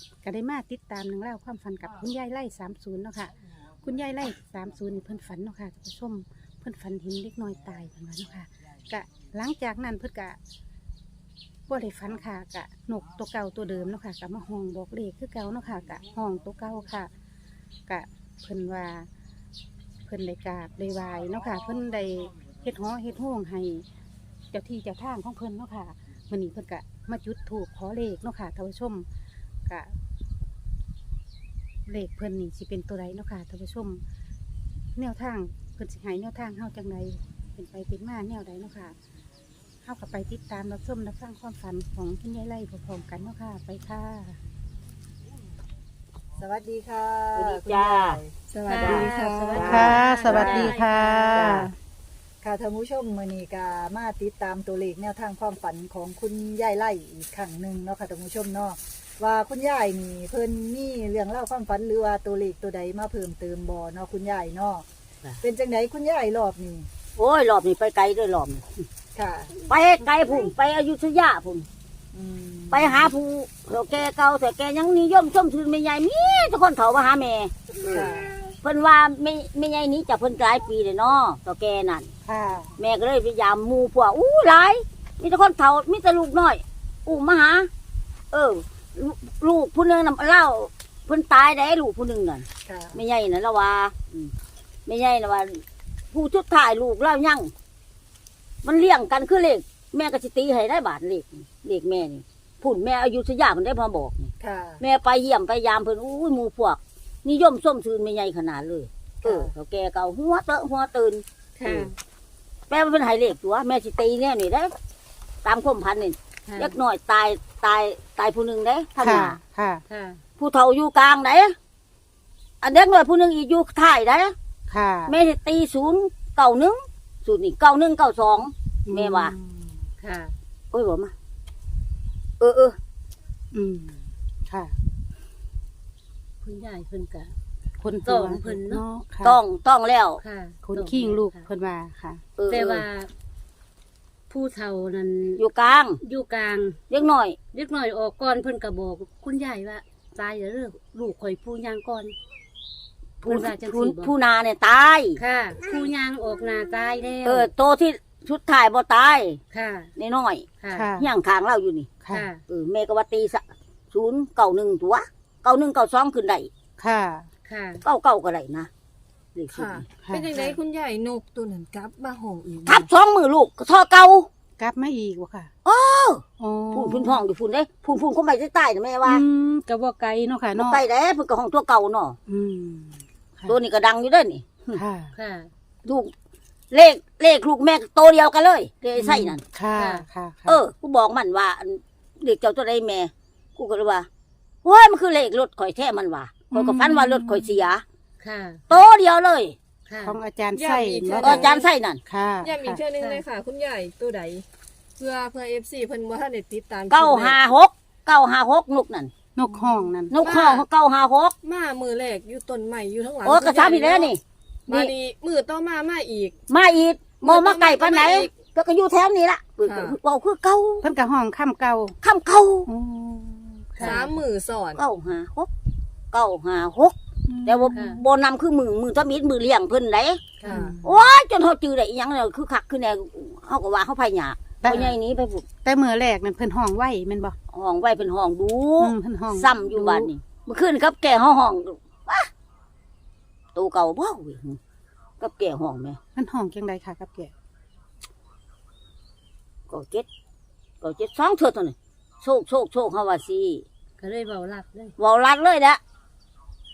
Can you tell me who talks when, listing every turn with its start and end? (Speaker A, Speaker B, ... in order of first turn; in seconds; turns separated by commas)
Speaker A: 0.2-10.4, Speaker A: 11.7-17.1, Speaker A: 17.9-19.1, Speaker A: 20.1-23.9, Speaker A: 24.5-29.1, Speaker A: 29.7-29.9, Speaker A: 31.9-34.0, Speaker A: 35.0-39.0, Speaker A: 39.8-44.4, Speaker B: 46.4-48.4, Speaker C: 47.3-48.2, Speaker D: 48.4-50.7, Speaker E: 48.6-51.5, Speaker A: 49.5-51.7, Speaker C: 49.6-49.9, Speaker C: 51.3-51.7, Speaker B: 52.4-64.8, Speaker B: 65.4-66.9, Speaker C: 67.2-68.6, Speaker B: 69.1-69.5, Speaker C: 69.7-71.7, Speaker B: 72.1-73.0, Speaker C: 72.7-78.1, Speaker D: 77.8-78.5, Speaker B: 77.9-78.2, Speaker C: 78.6-82.1, Speaker A: 82.2-82.7, Speaker C: 82.8-87.7, Speaker C: 88.3-94.3, Speaker B: 92.7-93.0, Speaker C: 94.9-97.5, Speaker C: 98.6-111.9, Speaker B: 109.2-109.5, Speaker E: 111.6-112.0, Speaker C: 112.7-114.7, Speaker C: 115.4-119.4, Speaker E: 116.5-116.7, Speaker A: 119.0-119.8, Speaker E: 119.9-120.2, Speaker C: 120.4-121.5, Speaker C: 122.6-124.3, Speaker A: 124.7-125.1, Speaker C: 125.1-129.3, Speaker A: 128.8-129.8, Speaker E: 130.0-130.3, Speaker C: 130.7-131.1, Speaker C: 132.4-132.8, Speaker A: 133.5-134.7, Speaker E: 136.4-137.3, Speaker A: 137.8-139.4, Speaker E: 138.0-138.8, Speaker C: 139.2-140.2, Speaker E: 140.2-141.4, Speaker A: 140.6-142.2, Speaker C: 142.4-142.8, Speaker E: 142.5-143.1, Speaker E: 144.3-145.4, Speaker C: 145.4-146.0, Speaker E: 146.0-146.8, Speaker C: 146.9-147.4, Speaker E: 147.5-152.2, Speaker E: 153.2-154.1, Speaker C: 153.2-155.2, Speaker E: 155.2-157.5, Speaker C: 157.2-159.4, Speaker E: 159.5-159.9, Speaker C: 160.0-160.5, Speaker E: 160.6-160.9, Speaker A: 160.7-161.1, Speaker C: 161.0-161.9, Speaker A: 162.0-162.3, Speaker E: 162.1-162.4, Speaker C: 162.5-166.5, Speaker A: 166.8-167.3, Speaker E: 167.4-167.8, Speaker C: 167.8-168.7, Speaker C: 169.3-169.8, Speaker D: 169.5-172.9, Speaker A: 170.0-170.3, Speaker C: 172.7-174.3, Speaker A: 174.6-175.5, Speaker C: 175.6-179.2, Speaker A: 176.4-177.2, Speaker A: 179.0-180.8, Speaker C: 180.6-182.2, Speaker A: 182.3-183.6, Speaker C: 183.5-184.8, Speaker A: 184.7-185.1, Speaker E: 185.1-185.5, Speaker C: 185.8-186.1, Speaker C: 186.7-189.4, Speaker A: 188.9-190.6, Speaker E: 189.7-190.1, Speaker C: 190.4-194.1, Speaker C: 194.6-197.8, Speaker A: 196.5-197.6, Speaker E: 198.2-198.6, Speaker C: 198.7-199.6, Speaker E: 199.9-200.2, Speaker A: 200.0-201.5, Speaker D: 200.5-201.7, Speaker C: 201.2-202.0, Speaker A: 202.1-202.8, Speaker D: 202.4-204.4, Speaker D: 205.0-207.4, Speaker C: 206.9-209.1, Speaker A: 209.3-210.1, Speaker C: 210.1-211.3, Speaker D: 210.2-210.7, Speaker D: 211.4-214.1, Speaker C: 213.2-214.9, Speaker D: 214.7-216.3, Speaker C: 216.5-220.9, Speaker D: 217.2-218.3, Speaker D: 219.6-220.0, Speaker A: 220.8-222.0, Speaker C: 222.0-222.7, Speaker A: 222.7-224.0, Speaker D: 223.9-224.8, Speaker C: 224.8-225.5, Speaker C: 226.1-230.2, Speaker A: 227.3-228.0, Speaker E: 227.7-228.0, Speaker A: 230.4-231.0, Speaker C: 230.8-235.4, Speaker A: 234.6-234.9, Speaker E: 234.7-234.9, Speaker A: 235.6-237.4, Speaker C: 237.5-242.3, Speaker A: 238.8-240.1, Speaker C: 243.5-244.6, Speaker C: 245.2-246.0, Speaker A: 246.1-247.3, Speaker C: 249.7-250.1, Speaker C: 250.8-253.6, Speaker E: 254.0-254.9, Speaker C: 255.0-255.8